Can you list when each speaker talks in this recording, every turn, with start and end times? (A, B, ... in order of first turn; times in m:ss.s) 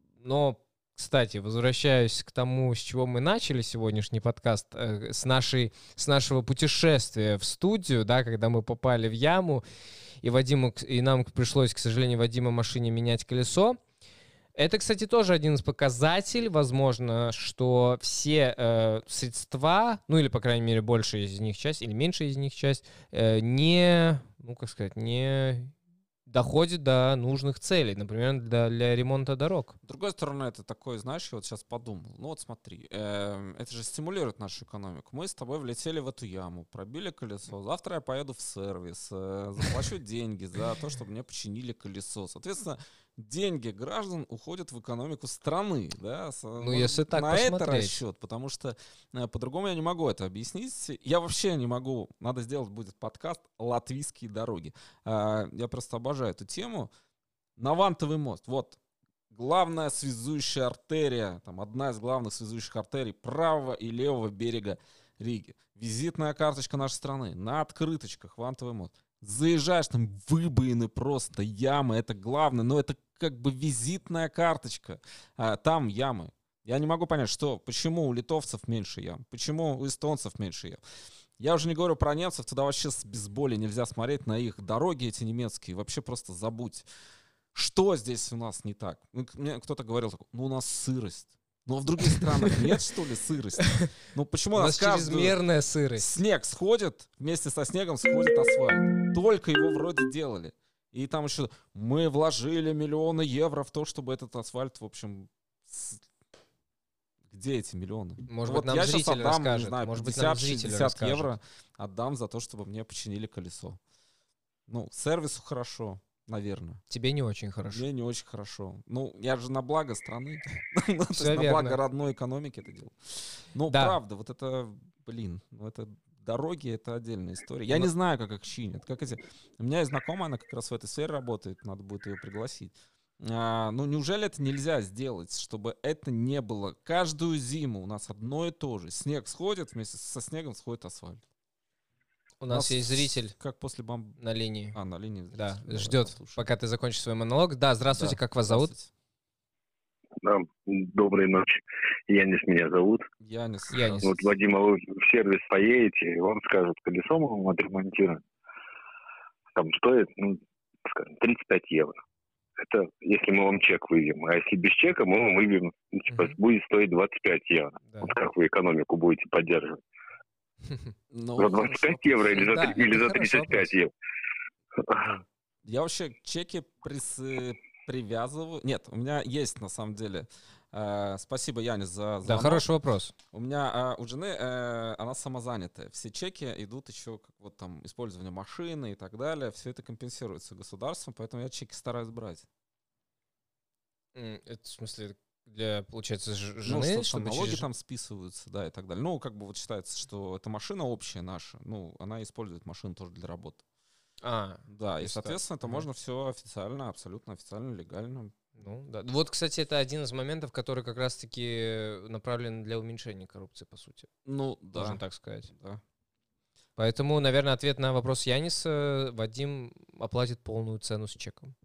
0:00.2-0:09.6 A
0:10.2-0:13.8 A
0:14.6-0:25.7 A
0:26.3-0:29.8 A
0:29.8-0:56.9 B
0:46.6-0:48.0 A
0:57.6-0:58.8 B
0:59.3-1:20.8 B
1:21.4-1:26.8 B
1:27.5-1:35.4 B
1:34.6-1:36.1 A
1:36.0-1:46.0 B
1:47.3-1:53.8 B
1:48.3-1:51.3 A
1:54.7-1:56.8 B
1:56.9-1:57.8 A
1:57.7-2:21.2 B
2:01.1-2:01.8 A
2:03.7-2:04.0 A
2:22.4-2:23.3 A
2:22.5-2:24.2 B
2:24.2-2:24.8 A
2:24.7-2:26.5 B
2:25.3-2:28.7 A
2:27.9-2:28.9 B
2:30.2-2:33.1 C
2:33.2-2:34.3 B
2:33.7-2:34.1 A
2:34.0-2:38.2 C
2:39.5-2:42.0 C
2:42.6-2:49.8 C
2:46.1-2:46.4 A
2:47.9-2:48.1 A
2:51.1-2:52.1 B
2:51.4-2:53.9 C
2:52.3-2:53.7 A
2:55.0-3:02.7 B
3:02.2-3:03.1 A
3:03.3-3:12.5 B
3:14.2-3:17.6 A
3:16.7-3:23.6 B
3:24.2-3:25.9 A
3:24.7-3:28.4 B
3:28.6-3:34.1 A
3:34.2-3:35.8 B
3:34.7-3:35.5 A
3:36.8-3:41.6 A